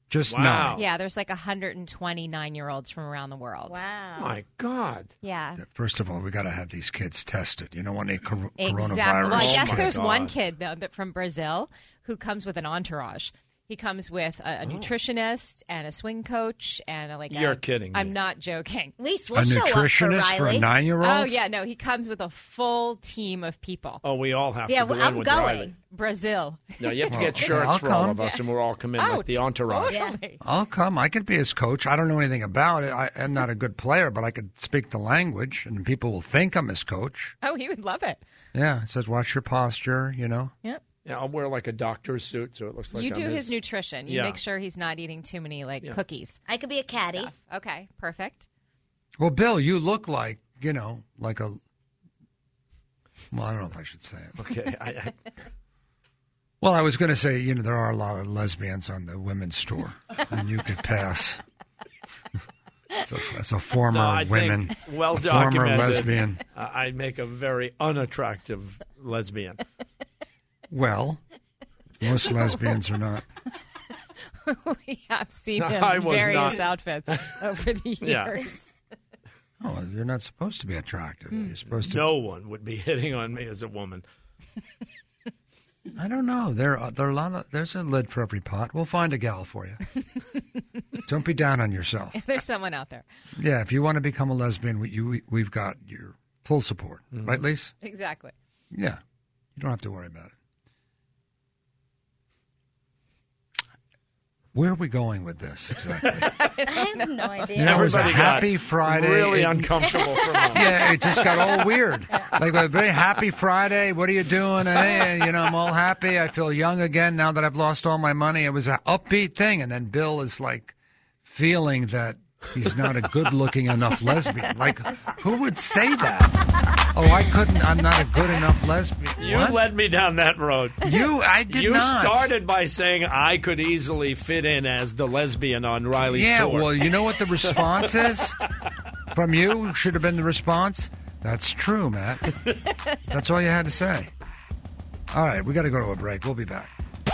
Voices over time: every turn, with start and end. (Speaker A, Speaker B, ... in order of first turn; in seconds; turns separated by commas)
Speaker A: 0.1-0.8, Speaker B: 0.2-0.8, Speaker C: 0.7-3.8, Speaker D: 3.7-4.3, Speaker B: 4.2-5.1, Speaker C: 5.2-5.6, Speaker A: 5.6-9.9, Speaker C: 8.6-18.9, Speaker B: 9.3-10.3, Speaker B: 14.6-14.9, Speaker B: 17.3-18.1, Speaker D: 19.0-20.6, Speaker A: 19.3-21.3, Speaker C: 21.0-24.0, Speaker B: 24.0-25.7, Speaker D: 24.7-25.7, Speaker C: 25.9-27.6, Speaker B: 26.8-30.0, Speaker A: 27.1-28.2, Speaker C: 28.9-30.4, Speaker D: 29.9-30.1, Speaker A: 30.4-37.3, Speaker C: 37.4-38.2, Speaker A: 38.5-40.5, Speaker B: 41.0-44.4, Speaker C: 42.9-46.4, Speaker D: 46.5-47.3, Speaker C: 47.1-48.5, Speaker A: 49.2-51.6, Speaker A: 53.3-54.4, Speaker B: 54.4-55.1, Speaker A: 56.6-61.4, Speaker A: 63.0-66.4, Speaker B: 63.9-69.6, Speaker A: 70.7-71.2, Speaker A: 72.0-73.2, Speaker C: 74.4-78.6, Speaker B: 75.5-77.3, Speaker B: 78.0-78.3, Speaker A: 79.6-82.0, Speaker B: 81.7-84.0, Speaker A: 85.9-89.8, Speaker A: 91.0-92.2, Speaker C: 92.1-93.0, Speaker A: 93.4-97.7, Speaker B: 97.1-97.4, Speaker C: 97.8-98.3, Speaker A: 98.7-99.0, Speaker A: 99.6-100.3, Speaker A: 104.5-106.4, Speaker C: 106.0-107.5, Speaker D: 106.7-108.3, Speaker A: 107.5-109.7, Speaker B: 107.6-110.9, Speaker A: 110.5-120.7, Speaker A: 121.2-126.4, Speaker A: 126.9-129.6, Speaker B: 129.2-136.9, Speaker A: 130.8-132.3, Speaker A: 136.0-138.4, Speaker B: 137.4-138.3, Speaker A: 139.1-142.3, Speaker A: 143.1-144.1, Speaker A: 145.1-146.7